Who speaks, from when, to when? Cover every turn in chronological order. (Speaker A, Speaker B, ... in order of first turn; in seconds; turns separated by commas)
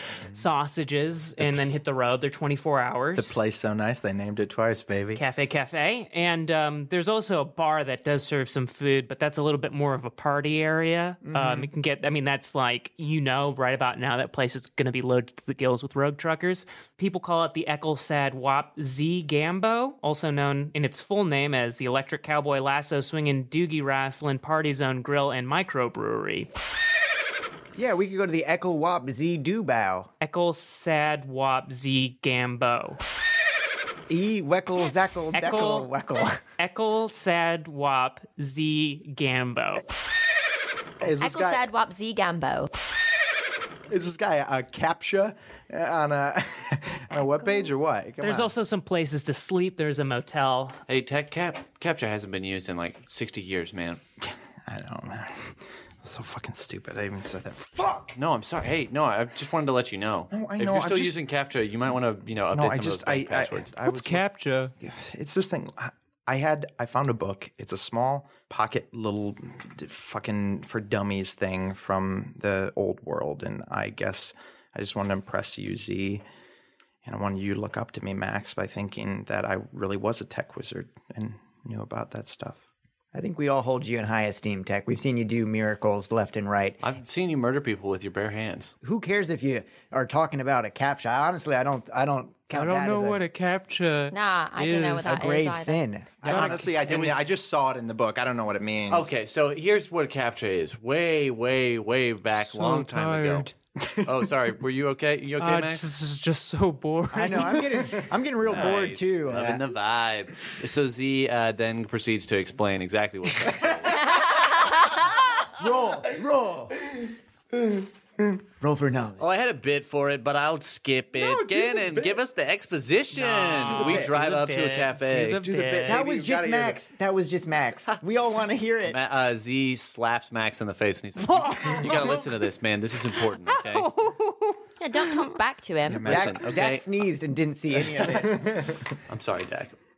Speaker A: 0.3-3.4, Speaker B: 3.1-5.2, Speaker A: 5.1-26.5, Speaker C: 11.2-11.7, Speaker C: 27.7-30.1, Speaker A: 30.2-33.0, Speaker C: 34.1-36.4, Speaker A: 35.3-35.9, Speaker A: 36.5-39.8, Speaker B: 41.0-41.7, Speaker D: 41.2-42.7, Speaker B: 43.9-48.5, Speaker A: 48.2-50.8, Speaker E: 50.9-54.0, Speaker B: 54.2-58.1, Speaker E: 58.1-63.7, Speaker B: 60.3-61.2, Speaker B: 62.5-64.2, Speaker A: 63.8-64.7, Speaker B: 64.8-76.2, Speaker B: 77.0-82.6, Speaker C: 83.1-86.8, Speaker E: 86.8-88.7, Speaker C: 88.8-93.2, Speaker A: 92.5-95.4, Speaker D: 94.1-95.8, Speaker C: 95.0-96.7, Speaker B: 96.2-99.1, Speaker A: 96.3-96.8, Speaker E: 96.8-97.2, Speaker E: 98.9-103.5, Speaker A: 102.4-103.5, Speaker B: 103.8-104.3, Speaker E: 104.0-105.8, Speaker A: 105.4-107.7, Speaker C: 107.1-109.6, Speaker E: 108.4-114.2, Speaker B: 113.6-114.2, Speaker C: 115.4-116.8, Speaker B: 116.9-118.4, Speaker C: 118.6-119.2, Speaker E: 119.2-125.4, Speaker B: 121.2-122.2, Speaker A: 123.1-126.0, Speaker B: 123.5-124.2, Speaker B: 125.4-126.8, Speaker C: 125.8-129.0, Speaker E: 128.8-133.9, Speaker A: 131.2-132.3, Speaker A: 133.3-135.3, Speaker D: 134.8-136.1, Speaker B: 135.9-136.4, Speaker E: 136.0-136.8, Speaker C: 136.0-138.8, Speaker B: 138.1-138.8, Speaker E: 139.1-139.8